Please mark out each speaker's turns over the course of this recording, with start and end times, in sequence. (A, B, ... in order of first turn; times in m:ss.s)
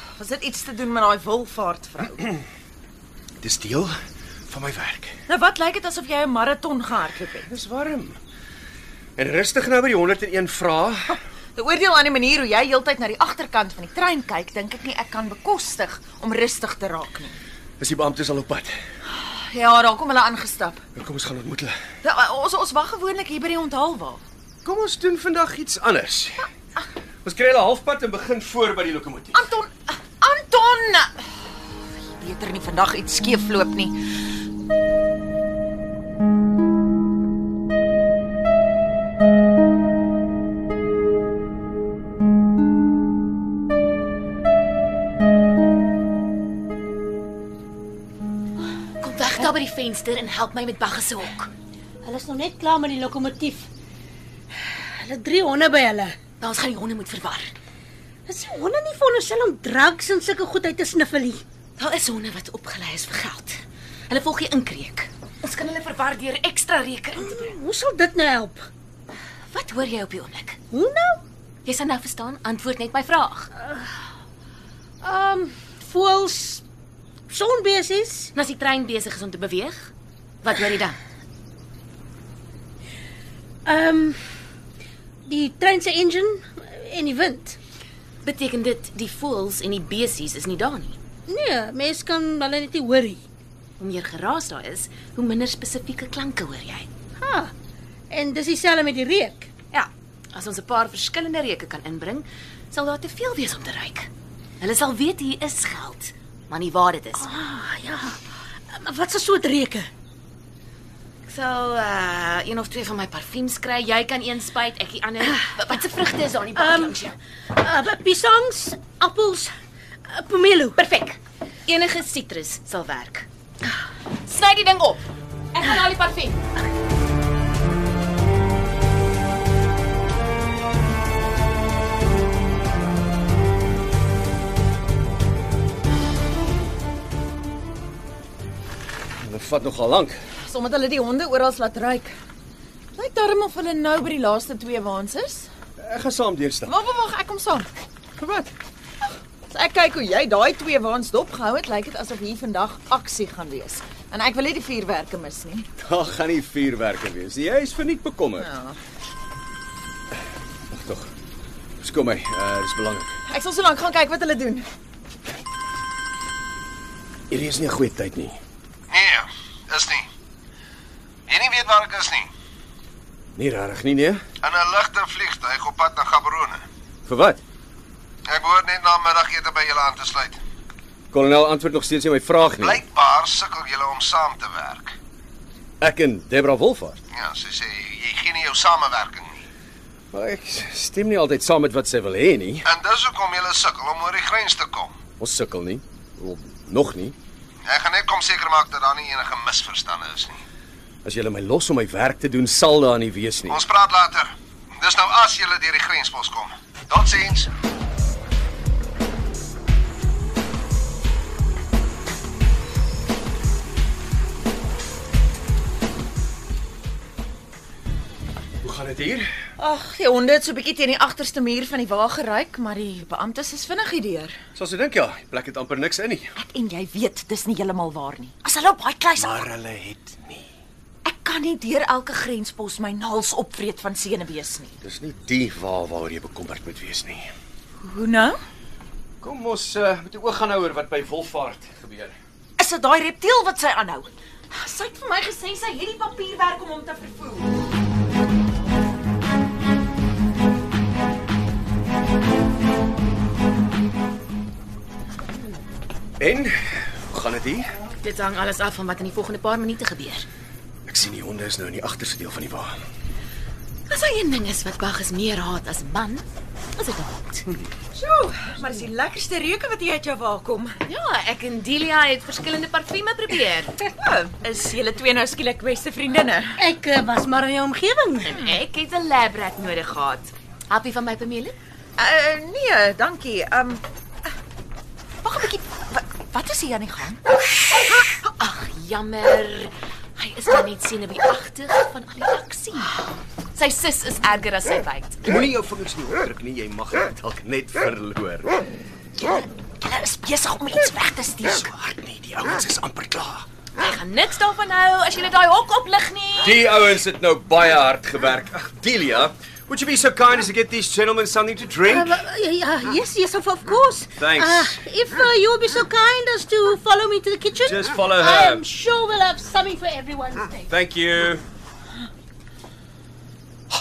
0:00.2-0:02.2 A
0:03.4-0:04.0 B
0:04.5-0:05.2 B
0:05.3-0:07.5 A
0:07.5-0:08.2 B
0:09.2-0:11.2 B
0:11.6-0:17.4 A
0:17.8-0:18.7 B
0:19.1-0:20.8 A
0:21.0-0:21.8 B
0:22.0-0:24.2 A
0:24.6-0:26.5 B
0:27.2-0:29.4 B
0:29.4-0:31.3 A
0:32.1-0:34.0 A
0:49.0-0:51.5 C
0:52.0-0:53.7 D
0:55.0-0:56.2 D
0:56.4-0:57.5 C
0:58.3-1:01.4 D
1:01.8-1:07.6 C
1:07.6-1:08.7 D
1:09.5-1:10.6 C
1:10.7-1:11.2 D
1:11.6-1:13.5 C
1:15.0-1:16.6 D
1:17.3-1:18.3 D
1:18.4-1:19.9 C
1:20.4-1:21.0 C
1:23.7-1:24.2 D
1:25.3-1:27.6 D
1:28.2-1:31.0 C
1:31.3-1:33.2 D
1:33.8-1:36.9 C
1:37.2-1:37.5 D
1:38.1-1:39.5 D
1:39.7-1:44.1 C
1:44.6-1:47.3 C
1:47.2-1:48.2 D
1:48.7-1:49.9 D
1:51.3-1:57.2 C
1:56.6-1:56.9 D
1:57.6-1:59.5 D
2:00.1-2:00.8 D
2:00.8-2:03.3 C
2:04.3-2:05.0 C
2:05.5-2:06.4 C
2:19.2-2:20.2 B
2:20.4-2:22.2 A
2:22.9-2:25.5 A
2:25.8-2:26.7 B
2:26.7-2:28.5 A
2:29.5-2:35.7 A
2:35.8-2:38.5 B
2:38.4-2:38.8 A
2:40.7-2:41.1 B
2:41.8-2:43.2 B
2:43.3-2:44.7 A
2:47.3-2:48.4 B
2:48.9-2:50.1 E
2:51.3-2:52.3 E
2:53.4-2:54.2 B
2:54.4-2:56.6 E
2:57.1-2:57.4 B
2:58.3-3:00.4 E
3:01.1-3:02.8 B
3:02.6-3:05.0 E
3:05.8-3:07.0 B
3:07.1-3:09.4 E
3:10.1-3:12.7 B
3:12.7-3:14.9 E
3:15.2-3:17.2 B
3:17.6-3:20.4 E
3:21.0-3:23.6 B
3:23.5-3:27.5 E
3:38.6-3:39.3 B
3:39.6-3:44.4 A
3:44.6-3:46.3 B
3:46.4-3:49.4 A
3:49.2-3:50.5 B
3:51.0-3:54.7 A
3:54.8-3:57.3 B
3:57.8-3:58.4 A
3:59.2-4:02.2 B
4:02.6-4:07.5 A
4:16.2-4:17.7 B
4:18.0-4:20.3 C
4:20.9-4:22.7 B
4:23.9-4:26.2 C
4:26.8-4:27.5 C
4:27.9-4:30.8 A
4:30.8-4:33.8 C
4:34.0-4:36.6 A
4:36.6-4:38.2 D
4:38.2-4:41.6 C
4:42.0-4:43.8 A
4:45.2-4:47.2 A
4:48.3-4:52.9 C
4:53.6-4:55.2 C
4:55.2-4:58.5 B
4:59.8-5:01.6 A
5:01.5-5:03.4 B
5:03.8-5:06.6 C
5:06.4-5:12.2 B
5:12.0-5:17.7 D
5:14.2-5:14.8 B
5:17.6-5:18.7 B
5:18.2-5:20.6 D
5:20.7-5:21.4 B